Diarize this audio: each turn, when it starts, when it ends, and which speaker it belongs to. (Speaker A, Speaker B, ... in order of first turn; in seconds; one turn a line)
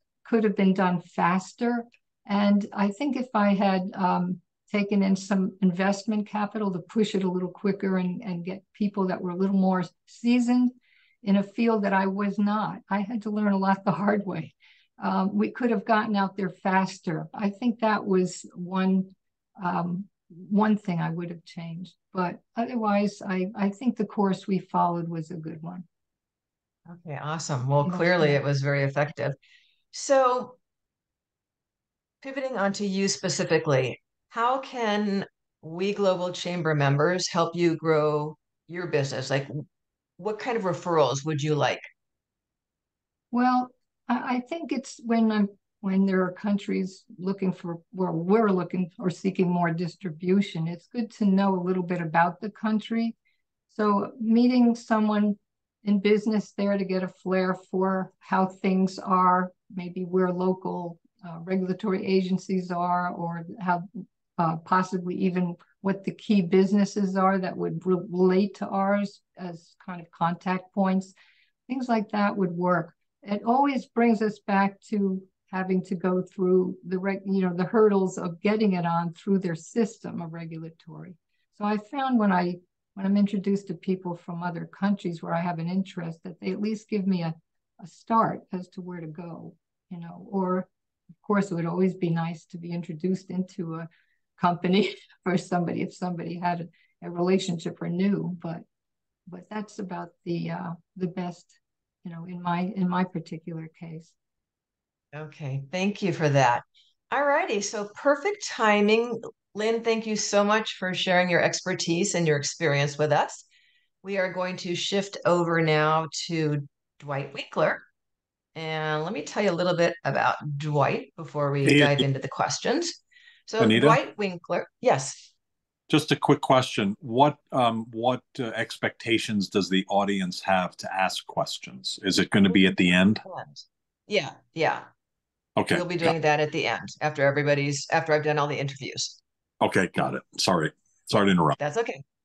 Speaker A: 0.2-25.8
Speaker B: 26.9-29.4
Speaker A: 27.8-28.4
Speaker B: 29.9-30.6
Speaker B: 32.2-39.6
Speaker B: 40.2-41.8
Speaker A: 43.3-53.1
Speaker A: 53.7-71.1
Speaker A: 71.7-90.7
Speaker A: 91.2-93.9
Speaker A: 94.4-98.6
Speaker A: 99.3-104.1
Speaker B: 105.1-113.5
Speaker B: 114.0-117.8
Speaker B: 118.5-125.3
Speaker C: 121.6-122.1
Speaker C: 123.6-124.0
Speaker C: 125.9-133.2
Speaker B: 132.5-134.8
Speaker C: 135.6-136.1
Speaker B: 135.7-139.2
Speaker C: 139.6-141.6
Speaker B: 141.6-142.0